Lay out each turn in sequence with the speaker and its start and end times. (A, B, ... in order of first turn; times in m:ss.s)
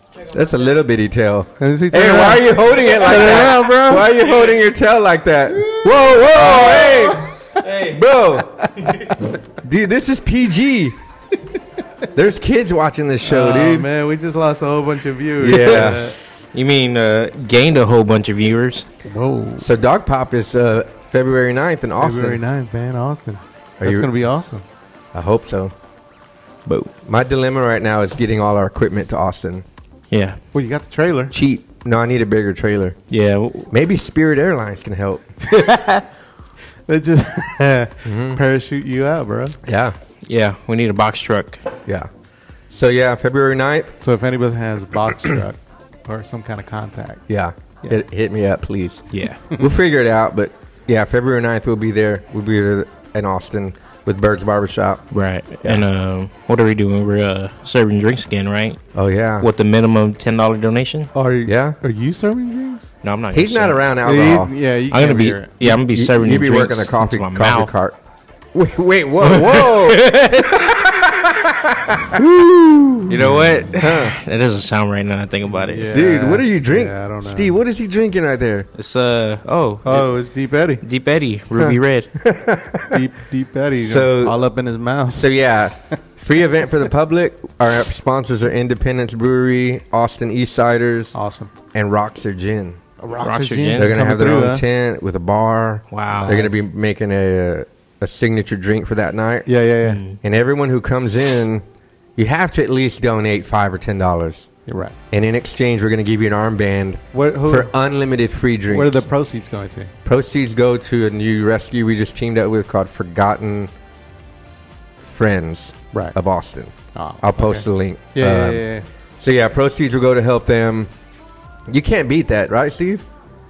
0:00.2-0:08.7 A
0:01.6-0:04.1 B
0:05.6-0:07.3 B
0:06.5-0:07.0 C
0:07.6-0:08.0 C
0:09.5-0:11.0 A
0:12.1-0:13.9 A
0:13.2-0:16.2 B
0:15.4-0:16.1 A
0:15.5-0:16.0 C
0:16.5-0:18.9 C
0:19.0-0:19.7 B
0:19.6-0:22.4 A
0:22.0-0:24.6 B
0:23.8-0:24.1 A
0:25.1-0:25.7 A
0:26.7-0:26.9 C
0:27.0-0:29.6 A
0:30.1-0:30.4 C
0:30.5-0:31.3 B
0:31.3-0:33.0 A
0:33.1-0:33.7 C
0:33.7-0:35.3 A
0:35.6-0:35.9 B
0:36.9-0:39.6 B
0:38.0-0:38.4 A
0:39.6-0:40.0 A
0:40.2-0:41.6 C
0:42.7-0:44.0 A
0:44.0-0:47.2 B
0:47.3-0:55.0 A
0:49.1-0:49.4 C
0:55.1-0:58.8 C
0:59.0-0:59.5 A
0:59.4-1:01.1 C
1:01.2-1:02.9 B
1:01.5-1:01.8 A
1:03.0-1:03.8 C
1:03.3-1:04.5 A
1:04.0-1:05.5 B
1:04.9-1:07.7 C
1:05.6-1:08.0 A
1:08.5-1:13.2 A
1:09.2-1:10.8 C
1:13.1-1:15.9 C
1:13.8-1:14.2 A
1:15.6-1:17.6 B
1:15.9-1:18.7 A
1:18.8-1:20.1 C
1:19.8-1:20.8 B
1:20.8-1:22.1 C
1:21.6-1:23.0 A
1:22.9-1:25.3 B
1:23.8-1:24.4 A
1:25.1-1:31.1 A
1:31.1-1:31.5 B
1:31.7-1:32.8 A
1:33.0-1:34.6 B
1:33.2-1:34.0 C
1:33.8-1:39.5 A
1:35.9-1:36.4 C
1:36.1-1:36.6 B
1:39.5-1:40.0 B
1:39.8-1:40.2 C
1:40.2-1:41.6 A
1:42.2-1:44.5 A
1:44.7-1:45.0 B
1:45.1-1:49.0 A
1:47.1-1:47.7 B
1:48.7-1:49.9 B
1:50.0-1:53.7 A
1:55.1-1:58.6 A
1:56.9-1:58.9 B
1:59.2-2:00.9 A
2:01.7-2:03.1 A